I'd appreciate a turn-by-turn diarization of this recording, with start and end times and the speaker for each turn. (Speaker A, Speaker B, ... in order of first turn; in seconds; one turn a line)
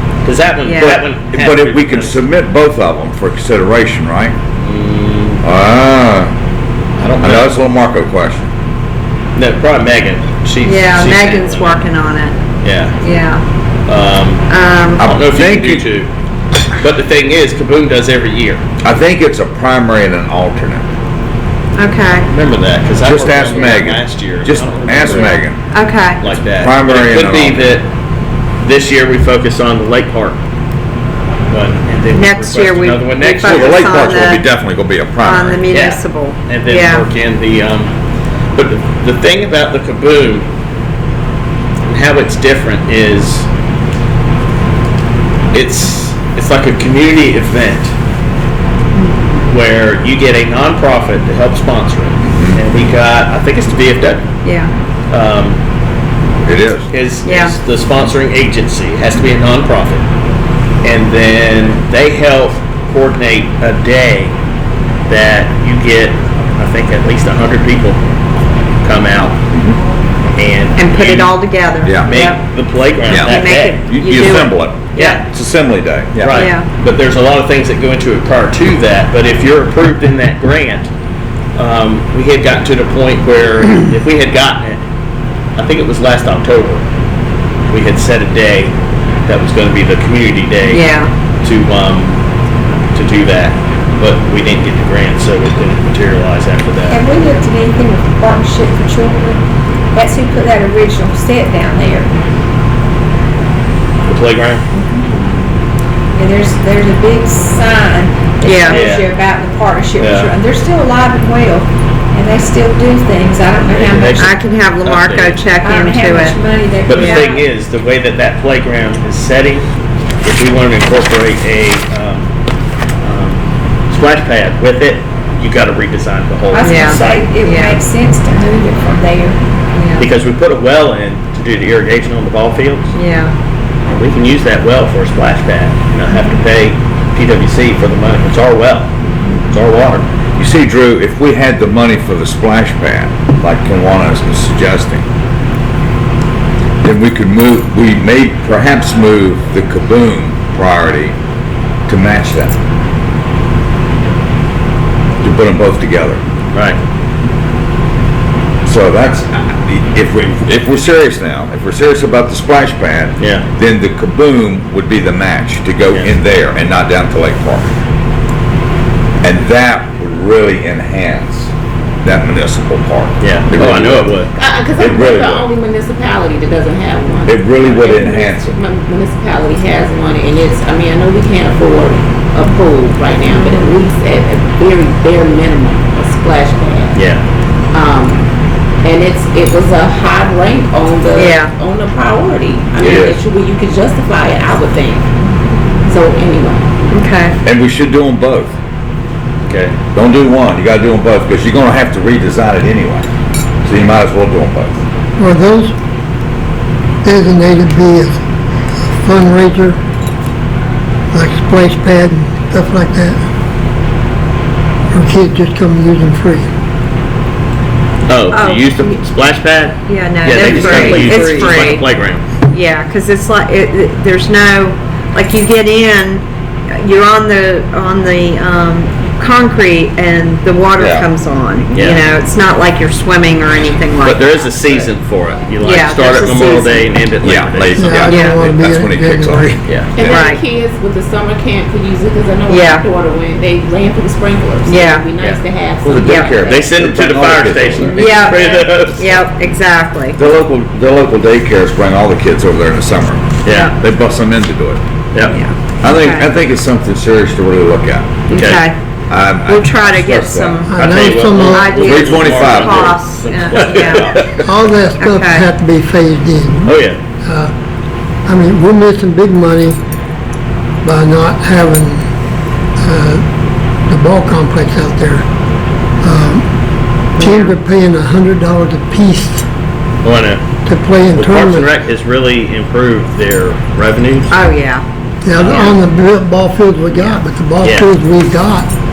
Speaker A: 0.2-2.2
Speaker B: 0.6-1.1
Speaker C: 1.3-4.3
Speaker A: 4.6-5.4
Speaker C: 5.4-6.3
Speaker A: 7.0-7.5
Speaker C: 7.2-8.5
Speaker A: 9.3-11.8
Speaker B: 10.6-12.3
Speaker A: 12.6-13.0
Speaker B: 13.0-13.4
Speaker A: 13.9-14.4
Speaker B: 14.5-15.1
Speaker C: 15.0-15.8
Speaker A: 15.0-16.1
Speaker A: 16.8-18.6
Speaker C: 18.8-20.9
Speaker B: 21.8-22.3
Speaker A: 22.3-25.4
Speaker C: 23.0-25.6
Speaker B: 25.1-26.2
Speaker A: 26.2-27.9
Speaker C: 26.5-27.7
Speaker A: 28.6-30.4
Speaker A: 31.5-33.8
Speaker B: 32.1-34.4
Speaker C: 33.4-35.6
Speaker B: 35.2-37.1
Speaker A: 35.7-37.9
Speaker A: 38.5-40.5
Speaker A: 41.9-43.5
Speaker A: 45.5-47.9
Speaker A: 49.5-54.3
Speaker C: 52.2-52.6
Speaker B: 54.4-54.7
Speaker A: 55.1-55.6
Speaker C: 56.5-56.9
Speaker A: 56.9-60.0
Speaker B: 57.2-57.5
Speaker A: 60.8-64.3
Speaker A: 65.1-68.0
Speaker A: 68.8-69.4
Speaker A: 70.3-71.3
Speaker B: 70.8-72.4
Speaker C: 71.8-72.1
Speaker A: 72.0-73.8
Speaker B: 73.1-75.2
Speaker C: 73.1-76.5
Speaker A: 74.9-75.2
Speaker A: 76.1-80.9
Speaker B: 76.3-76.7
Speaker A: 81.5-84.8
Speaker A: 85.6-86.8
Speaker A: 87.7-88.7
Speaker A: 89.3-90.8
Speaker B: 90.6-91.1
Speaker A: 91.4-92.2
Speaker A: 92.9-97.0
Speaker D: 96.9-99.4
Speaker D: 99.9-102.1
Speaker A: 104.1-104.7
Speaker D: 104.7-105.4
Speaker D: 106.1-114.3
Speaker B: 108.4-108.9
Speaker A: 108.7-109.0
Speaker A: 110.0-110.3
Speaker A: 113.7-114.3
Speaker B: 114.1-116.4
Speaker A: 114.8-115.4
Speaker D: 115.6-117.5
Speaker A: 116.8-119.7
Speaker B: 117.0-117.3
Speaker A: 120.2-122.3
Speaker A: 123.0-127.3
Speaker D: 126.5-129.4
Speaker B: 126.6-127.8
Speaker B: 129.7-130.1
Speaker A: 130.0-132.9
Speaker B: 132.9-133.3
Speaker A: 133.9-138.9
Speaker A: 139.5-140.1
Speaker C: 140.4-145.0
Speaker C: 146.8-151.2
Speaker C: 151.9-152.6
Speaker C: 155.2-156.2
Speaker A: 156.5-156.8
Speaker C: 158.7-167.7
Speaker A: 163.2-163.4
Speaker C: 169.2-171.5
Speaker C: 172.0-174.1
Speaker A: 173.2-174.3
Speaker E: 174.3-187.0
Speaker C: 174.8-175.5
Speaker C: 177.3-178.6
Speaker A: 186.9-187.2
Speaker E: 187.7-188.2
Speaker E: 188.8-195.1
Speaker B: 191.2-191.5
Speaker C: 192.8-193.2
Speaker E: 195.9-196.7
Speaker B: 196.9-197.4
Speaker C: 197.4-198.5
Speaker A: 199.4-199.8
Speaker C: 199.9-203.1
Speaker C: 203.6-204.8
Speaker F: 205.2-205.7
Speaker F: 207.0-208.2
Speaker F: 209.0-209.8
Speaker F: 211.1-213.2
Speaker F: 214.9-216.5
Speaker A: 218.1-222.2
Speaker B: 218.3-218.7
Speaker B: 219.9-221.8
Speaker E: 220.3-221.4
Speaker B: 222.5-234.5
Speaker C: 230.8-231.1
Speaker A: 231.7-232.0
Speaker A: 234.0-238.0
Speaker B: 235.6-236.9
Speaker C: 237.2-239.6
Speaker F: 237.8-239.6
Speaker B: 238.0-238.4
Speaker A: 239.7-240.2
Speaker E: 239.9-246.7
Speaker B: 240.0-240.4
Speaker B: 242.5-242.8
Speaker B: 244.7-245.1
Speaker C: 245.8-248.1
Speaker A: 245.9-249.2
Speaker B: 246.0-246.3
Speaker E: 247.7-248.6
Speaker B: 247.9-250.2
Speaker C: 250.2-254.8
Speaker A: 253.4-253.7
Speaker B: 253.5-253.7
Speaker A: 255.1-255.4
Speaker B: 255.3-256.3
Speaker C: 255.8-258.2
Speaker B: 258.3-258.8
Speaker A: 258.3-258.6
Speaker C: 259.1-260.6
Speaker B: 259.4-260.7
Speaker F: 260.7-261.7
Speaker A: 260.7-264.4
Speaker B: 261.4-264.2
Speaker C: 261.7-263.0
Speaker F: 264.4-267.5
Speaker B: 265.0-265.4
Speaker A: 266.6-267.0
Speaker F: 268.2-269.8
Speaker F: 270.8-272.1
Speaker F: 272.8-273.2
Speaker F: 273.9-275.2
Speaker F: 276.0-276.4
Speaker F: 277.2-279.4
Speaker B: 277.2-277.5
Speaker A: 280.0-280.4
Speaker F: 280.6-281.7
Speaker A: 281.1-284.3
Speaker B: 284.3-284.8
Speaker F: 285.2-288.7
Speaker A: 285.4-285.8
Speaker A: 287.6-287.9